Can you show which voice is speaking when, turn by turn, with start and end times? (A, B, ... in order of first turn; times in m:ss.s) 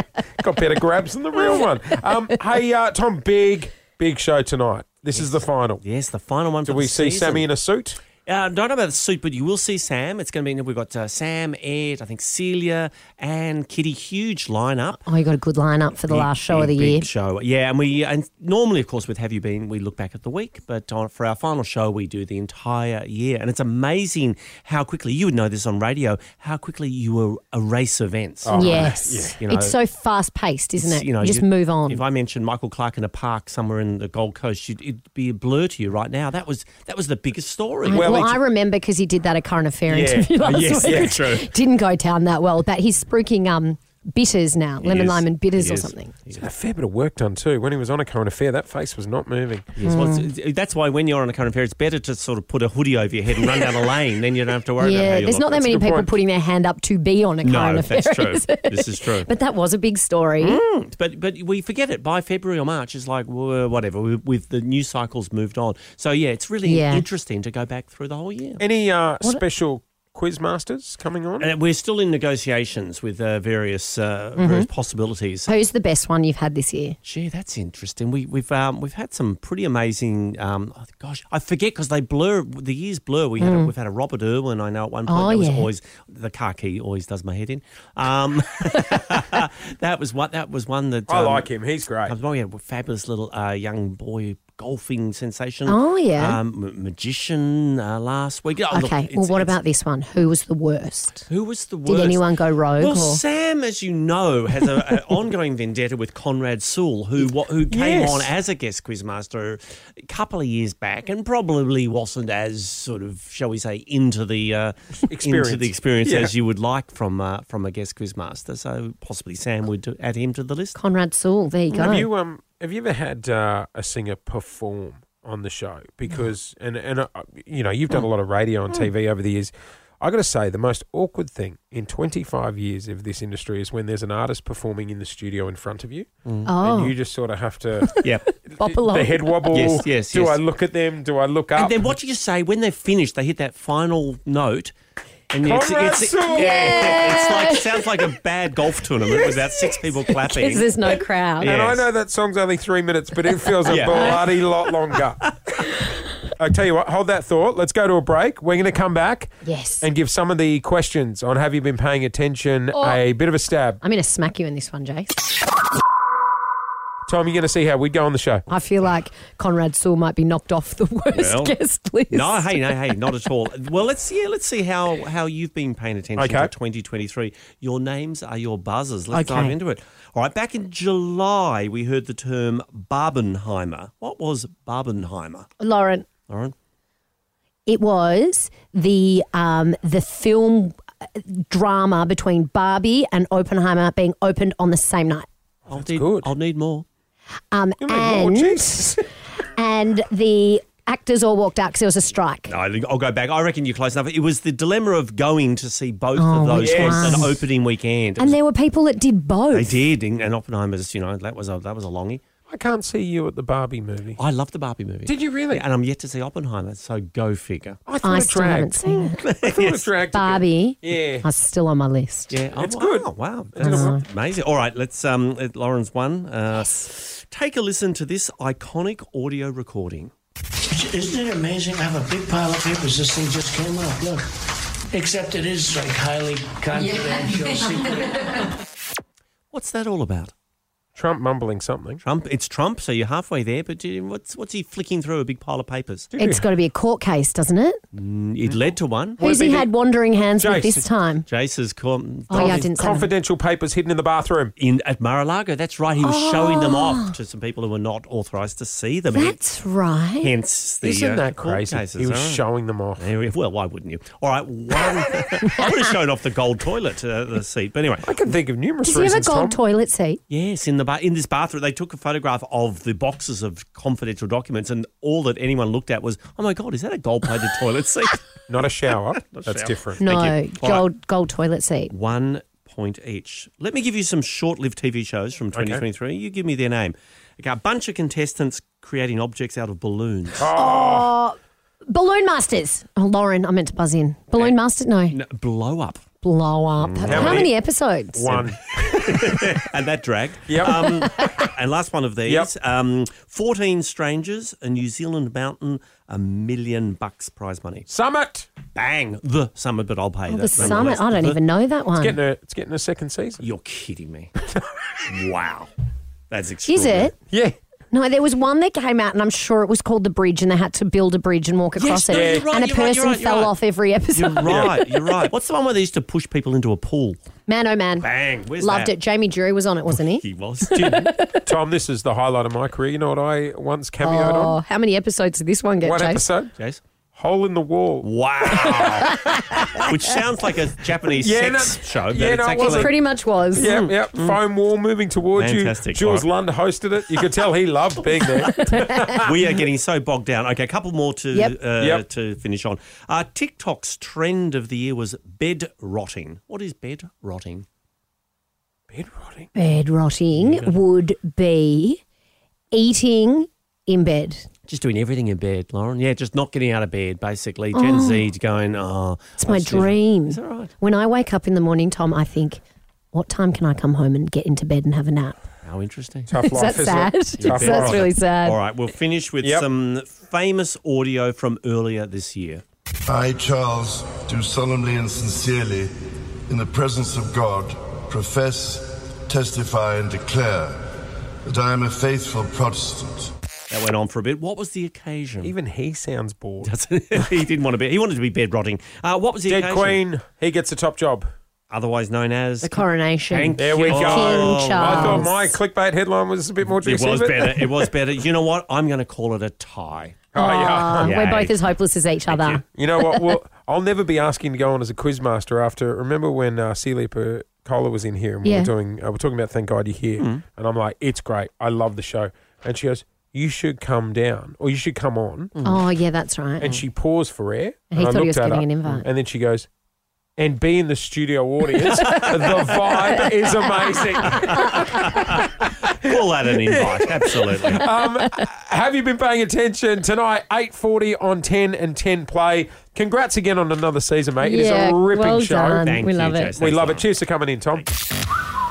0:00.4-0:05.8 A
0:05.2-0:07.5 B
0:06.7-0:08.0 A
0:08.2-0:15.0 B
0:15.0-0:17.1 C
0:16.0-0:29.8 B
0:28.4-0:29.4 A
0:28.5-0:32.0 C
0:30.8-0:38.3 B
0:37.8-0:46.1 C
0:37.9-0:38.4 A
0:39.9-0:41.3 A
0:40.4-0:41.5 B
0:44.8-0:46.5 B
0:46.4-0:49.7 A
0:49.8-0:55.6 B
0:49.8-0:50.3 C
0:53.5-0:53.8 C
0:54.8-1:00.6 C
0:55.6-0:56.1 A
0:57.4-0:59.3 B
1:00.4-1:08.6 B
1:06.6-1:07.0 C
1:08.6-1:11.5 A
1:11.4-1:15.5 B
1:14.4-1:14.7 C
1:15.5-1:17.0 C
1:17.0-1:39.6 B
1:23.4-1:23.7 C
1:25.1-1:25.7 C
1:31.1-1:32.2 A
1:35.7-1:36.4 C
1:38.7-1:41.3 C
1:41.3-2:00.8 B
1:41.9-1:43.2 C
1:47.7-1:48.3 A
1:55.0-1:56.3 A
2:00.8-2:02.1 C
2:01.7-2:16.1 A
2:16.5-2:17.0 C
2:16.6-2:17.9 A
2:17.8-2:19.7 C
2:18.5-2:22.0 A
2:19.5-2:20.4 B
2:21.6-2:24.7 B
2:25.3-2:30.8 B
2:25.4-2:27.2 A
2:26.3-2:27.8 C
2:30.1-2:31.6 C
2:31.4-2:31.9 B
2:31.4-2:35.3 A
2:33.7-2:34.4 B
2:33.8-2:34.1 C
2:36.4-2:43.8 A
2:39.4-2:39.9 C
2:43.8-2:45.2 C
2:47.1-2:48.5 A
2:48.5-2:52.7 C
2:51.2-2:51.6 B
2:52.1-3:05.5 B
2:56.2-2:56.5 A
2:59.1-2:59.6 C
3:05.6-3:06.1 C
3:06.3-3:06.6 B
3:07.7-3:15.3 C
3:15.7-3:16.8 B
3:15.7-3:16.3 A
3:17.5-3:22.5 C
3:17.8-3:19.0 A
3:22.5-3:28.4 B
3:26.2-3:27.4 C
3:26.6-3:27.4 A
3:28.2-3:29.8 C
3:29.5-3:32.2 B
3:32.5-3:34.2 A
3:34.2-3:37.8 B
3:35.0-3:35.6 A
3:37.9-3:41.3 A
3:38.0-3:39.2 C
3:39.1-3:39.9 B
3:40.1-3:42.3 C
3:42.3-3:50.1 B
3:42.6-3:44.0 A
3:43.6-3:44.0 C
3:50.7-3:54.3 D
3:54.9-3:58.4 D
3:59.5-4:00.3 B
4:01.0-4:02.0 A
4:02.0-4:06.1 B
4:06.1-4:06.5 A
4:06.2-4:07.8 C
4:07.9-4:09.7 B
4:09.2-4:11.3 C
4:09.4-4:09.6 A
4:10.4-4:10.9 A
4:11.3-4:12.7 B
4:12.3-4:14.6 A
4:12.3-4:13.1 C
4:14.6-4:19.4 B
4:16.0-4:17.1 C
4:19.1-4:20.3 C
4:20.2-4:22.4 B
4:20.8-4:23.1 A
4:23.0-4:28.1 B
4:28.0-4:29.6 A
4:28.8-4:30.2 C
4:30.3-4:38.2 B
4:38.5-4:40.1 A
4:38.9-4:40.9 B
4:40.0-4:41.9 C
4:41.9-4:50.5 B
4:45.5-4:45.8 A
4:50.4-4:51.2 A
4:50.5-4:51.4 C
4:51.9-4:55.2 C
4:55.1-4:56.0 B
4:56.2-4:58.2 C
4:56.8-4:57.5 B
4:57.1-4:57.5 A
4:58.1-4:59.4 A
4:58.3-5:07.9 B
5:00.5-5:01.5 A
5:02.2-5:02.5 A
5:07.9-5:08.5 A
5:08.8-5:11.4 B
5:10.3-5:12.2 C
5:10.6-5:10.9 A
5:12.0-5:13.5 A
5:13.4-5:14.3 B
5:15.1-5:15.7 B
5:16.3-5:17.1 B
5:16.7-5:17.2 C
5:17.9-5:24.6 C
5:21.8-5:23.6 B
5:22.1-5:22.5 A
5:24.1-5:27.2 B
5:24.4-5:25.3 A
5:27.5-5:31.4 C
5:28.0-5:29.0 B
5:29.9-5:31.0 B
5:30.7-5:34.6 A
5:34.0-5:36.2 C
5:35.8-5:36.6 A
5:37.2-5:39.9 A
5:38.0-5:39.2 B
5:38.6-5:39.9 C
5:39.8-5:43.0 B
5:41.2-5:43.0 A
5:42.6-5:43.7 C
5:43.6-5:44.4 B
5:43.6-5:49.4 A
5:45.4-5:46.3 B
5:48.5-5:57.7 B
5:48.6-5:49.3 C
5:51.8-5:52.0 A
5:58.9-5:59.5 A
5:59.6-6:02.0 C
6:00.3-6:00.8 B
6:02.7-6:04.5 C
6:04.7-6:10.7 B
6:07.7-6:08.2 C
6:09.4-6:12.6 C
6:13.1-6:15.4 C
6:15.6-6:16.4 B
6:16.3-6:18.1 A
6:16.4-6:18.6 C
6:17.4-6:22.6 B
6:19.4-6:19.7 A
6:23.1-6:25.9 E
6:26.5-6:30.8 E
6:31.4-6:33.3 E
6:33.7-6:35.5 B
6:35.4-6:36.7 A
6:36.6-6:40.0 B
6:39.5-6:41.3 A
6:41.7-6:45.3 B
6:42.6-6:45.5 C
6:43.6-6:47.9 A
6:46.6-6:50.4 B
6:50.3-6:51.2 A
6:50.4-6:53.3 C
6:51.0-6:51.6 B
6:52.3-6:52.6 B
6:52.7-7:05.6 A
6:58.4-6:58.7 C
7:05.6-7:05.8 B
7:05.6-7:06.7 C
7:06.6-7:09.7 A
7:07.9-7:09.1 C
7:10.4-7:25.9 A
7:11.9-7:13.2 B
7:12.9-7:15.2 C
7:14.2-7:17.8 B
7:24.4-7:26.6 C
7:25.8-7:27.9 B
7:26.6-7:27.8 A